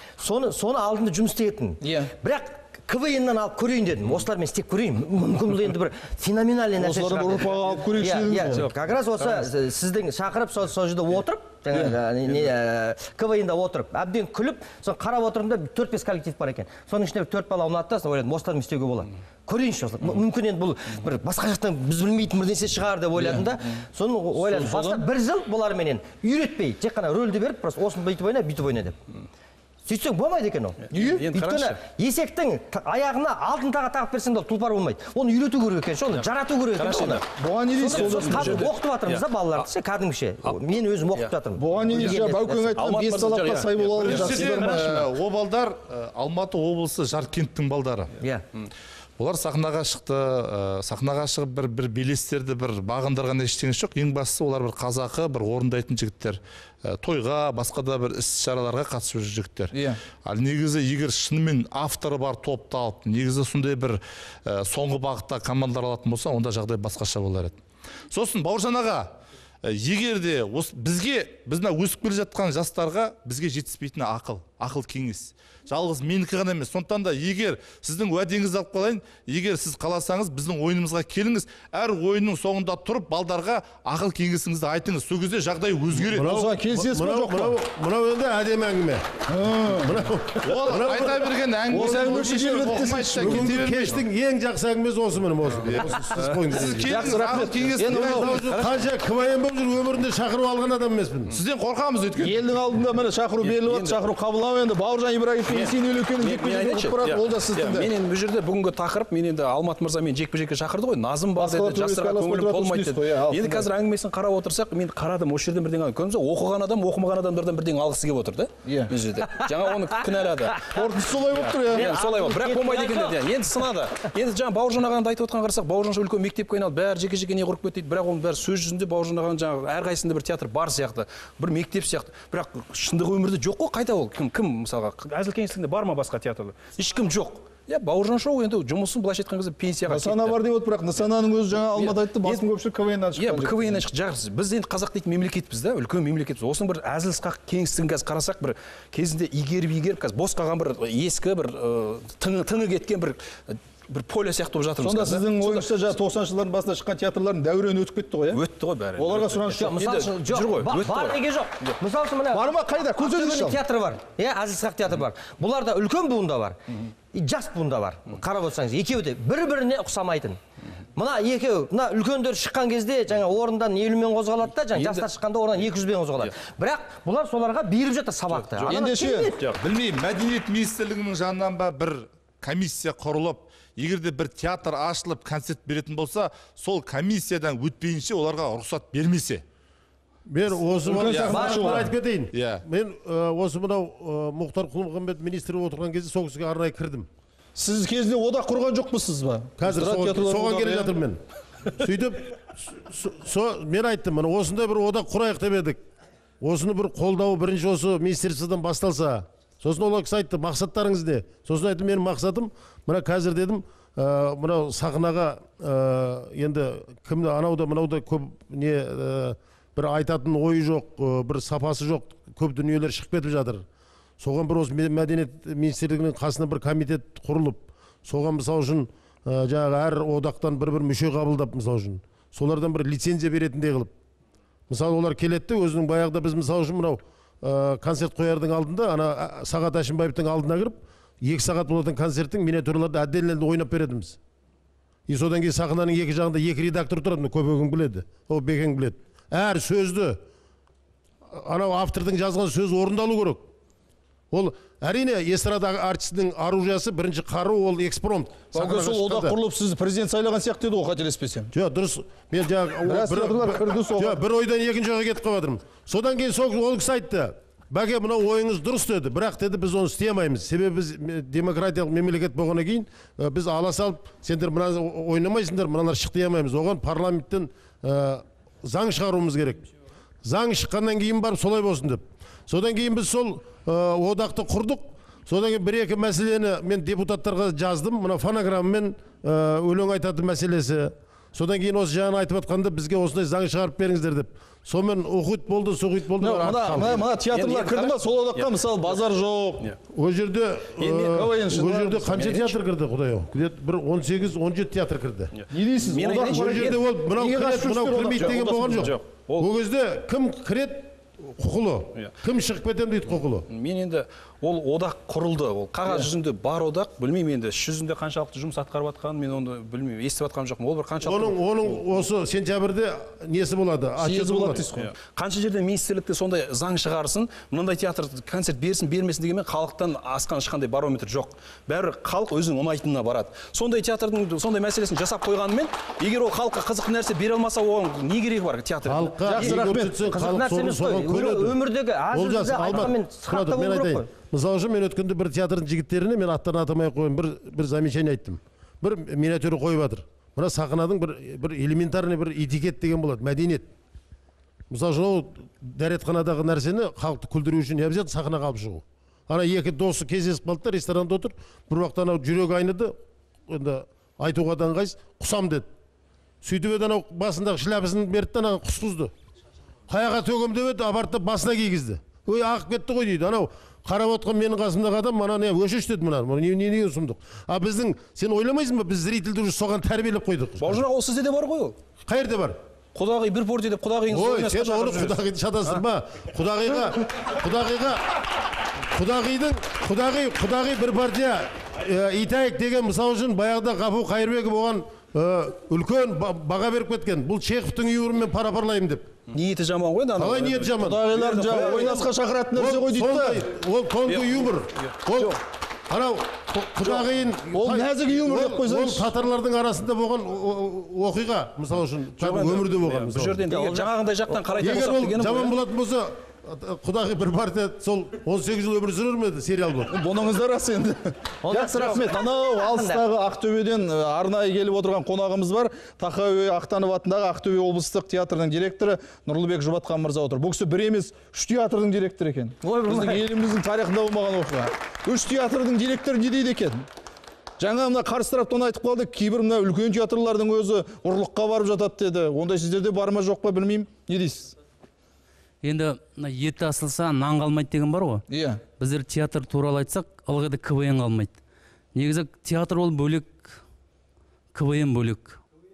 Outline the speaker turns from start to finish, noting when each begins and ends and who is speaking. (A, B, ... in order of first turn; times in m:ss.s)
0:00.2-0:29.0 A
0:01.8-0:02.1 B
0:06.8-0:08.7 B
0:24.4-0:25.0 B
0:29.9-0:37.2 A
0:30.9-0:31.8 C
0:30.9-0:31.4 B
0:36.8-0:37.2 C
0:37.4-0:38.7 B
0:37.8-0:42.8 A
0:37.9-0:39.6 C
0:40.4-0:41.3 C
0:41.6-0:45.1 B
0:41.8-0:44.7 C
0:44.0-0:48.1 D
0:49.2-1:07.6 D
0:59.7-1:00.0 B
1:08.1-1:09.1 D
1:09.6-1:26.3 D
1:26.1-1:29.1 E
1:26.1-1:27.6 B
1:29.3-1:30.1 B
1:29.7-1:37.2 E
1:30.4-1:34.0 D
1:31.7-1:33.8 B
1:35.6-1:38.6 D
1:36.7-1:38.6 B
1:37.8-1:41.3 E
1:41.3-1:42.4 D
1:42.2-1:47.9 B
1:43.4-1:44.0 C
1:45.5-2:00.8 C
1:51.4-1:53.7 B
1:58.6-1:58.9 B
2:00.7-2:01.9 B
2:01.3-2:20.4 C
2:01.7-2:03.2 A
2:19.9-2:23.8 B
2:21.7-2:22.4 C
2:23.1-2:35.7 C
2:34.8-2:38.4 B
2:38.3-2:41.8 C
2:39.0-2:39.7 B
2:39.6-2:46.6 A
2:42.3-2:43.6 B
2:47.1-2:50.4 A
2:51.0-2:59.4 A
2:54.7-2:55.1 C
2:58.3-2:58.8 C
2:58.7-2:59.3 B
2:59.4-3:09.4 D
3:10.3-3:17.1 E
3:10.8-3:11.9 B
3:11.3-3:11.9 A
3:12.3-3:12.6 D
3:17.6-3:20.9 B
3:19.6-3:21.2 E
3:21.7-3:25.8 E
3:26.4-3:43.6 E
3:44.2-3:53.9 E
3:54.7-4:04.2 E
4:05.1-4:10.2 E
4:11.3-4:13.5 E
4:14.3-4:19.4 E
4:18.5-4:21.5 B
4:21.5-4:39.6 E
4:22.9-4:24.2 B
4:40.2-4:57.0 E
4:56.2-4:59.7 B
4:56.7-4:59.0 C
4:59.9-5:05.3 E
5:00.8-5:02.3 B
5:02.2-5:02.5 C
5:05.3-5:06.8 C
5:05.5-5:08.9 B
5:06.2-5:13.4 E
5:08.2-5:09.5 C
5:13.5-5:21.8 C
5:21.0-5:24.6 E
5:24.0-5:24.9 B
5:24.7-5:39.5 C
5:38.8-5:41.6 E
5:39.2-5:40.0 B
5:40.1-5:44.1 A
5:42.1-5:53.7 E
5:54.7-6:03.0 E
6:03.5-6:05.7 E
6:06.4-6:09.1 E
6:09.9-6:20.8 E
6:20.6-6:21.8 C
6:22.0-6:22.6 E
6:22.9-6:25.8 C
6:24.1-6:28.1 E
6:28.9-6:39.1 E
6:39.3-6:42.1 C
6:40.2-6:41.1 E
6:40.8-6:43.4 B
6:42.5-6:53.4 E
6:44.1-6:45.0 C
6:47.5-6:49.1 B
6:52.2-6:55.6 C
6:53.5-6:54.8 A
6:54.6-7:00.0 E
6:59.9-7:16.9 B
7:01.4-7:03.0 A
7:12.6-7:13.2 A
7:17.6-7:24.5 B
7:25.6-7:28.2 F
7:28.3-7:28.6 B
7:28.8-7:31.4 F
7:31.9-7:33.6 F
7:34.5-7:35.4 F